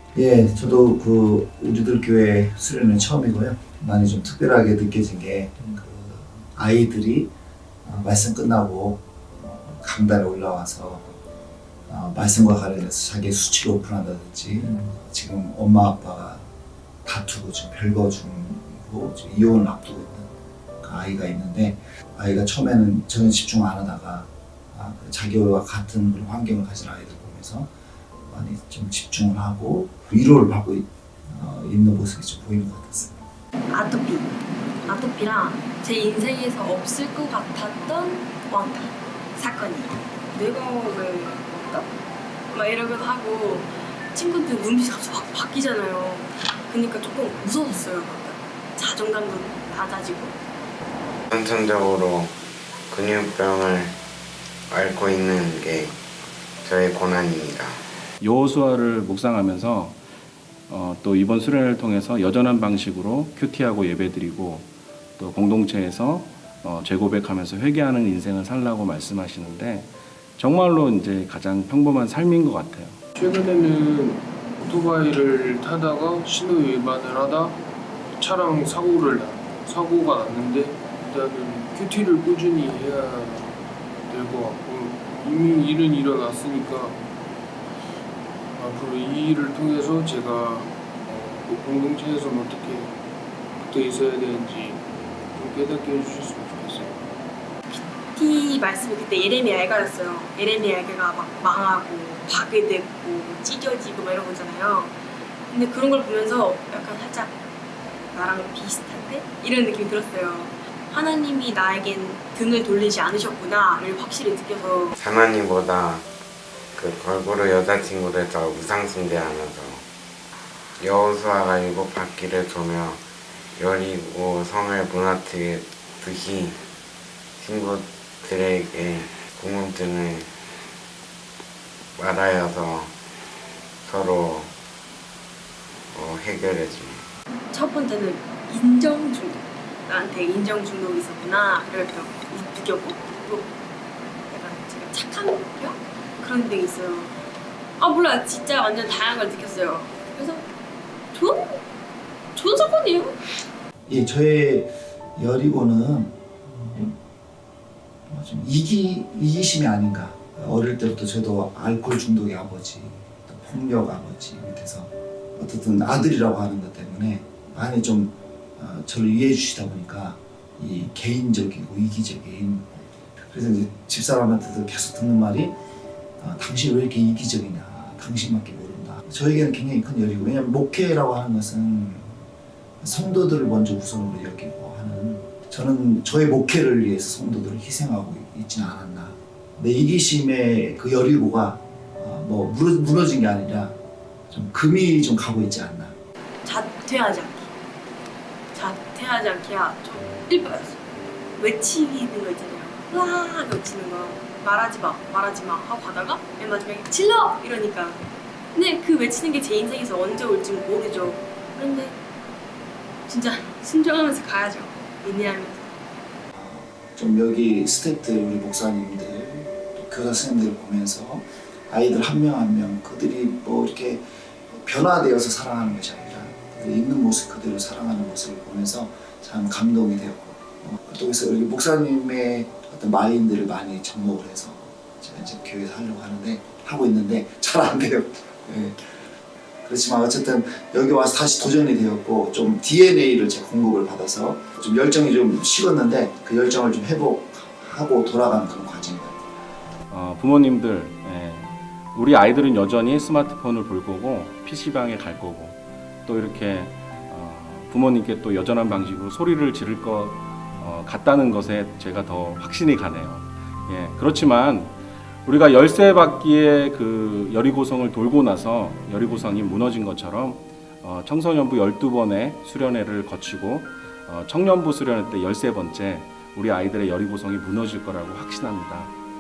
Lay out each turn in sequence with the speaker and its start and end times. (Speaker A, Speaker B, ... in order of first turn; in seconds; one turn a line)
Speaker A: 0.1-7.3
Speaker A: 7.8-11.2
Speaker A: 11.9-16.5
Speaker A: 17.1-20.3
Speaker A: 20.8-27.7
Speaker A: 28.3-33.2
Speaker B: 33.7-34.3
Speaker B: 34.8-41.9
Speaker B: 42.5-50.4
Speaker C: 51.3-52.3
Speaker C: 52.9-54.0
Speaker C: 54.7-56.0
Speaker C: 56.6-57.8
Speaker D: 58.2-60.0
Speaker D: 60.7-73.0
Speaker E: 73.2-77.6
Speaker E: 78.2-83.6
Speaker E: 84.1-87.0
Speaker E: 88.5-93.0
Speaker E: 93.6-97.0
Speaker B: 97.7-107.4
Speaker B: 108.1-115.0
Speaker C: 115.0-116.0
Speaker C: 116.8-119.8
Speaker C: 120.8-123.0
Speaker C: 123.5-126.7
Speaker C: 127.4-130.3
Speaker C: 132.0-132.9
Speaker C: 133.9-134.5
Speaker C: 135.9-137.1
Speaker B: 137.5-143.5
Speaker B: 144.3-147.2
Speaker B: 147.8-150.5
Speaker B: 151.1-151.6
Speaker B: 152.3-153.2
Speaker A: 153.9-157.0
Speaker A: 158.1-175.6
Speaker A: 176.2-182.2
Speaker A: 182.8-193.8
Speaker A: 194.3-195.9
Speaker B: 196.4-197.5
Speaker B: 198.5-200.8
Speaker B: 201.4-208.0
Speaker B: 208.5-212.0
Speaker B: 213.1-215.7
Speaker A: 216.3-239.0
Speaker A: 239.6-249.2
Speaker D: 249.9-278.9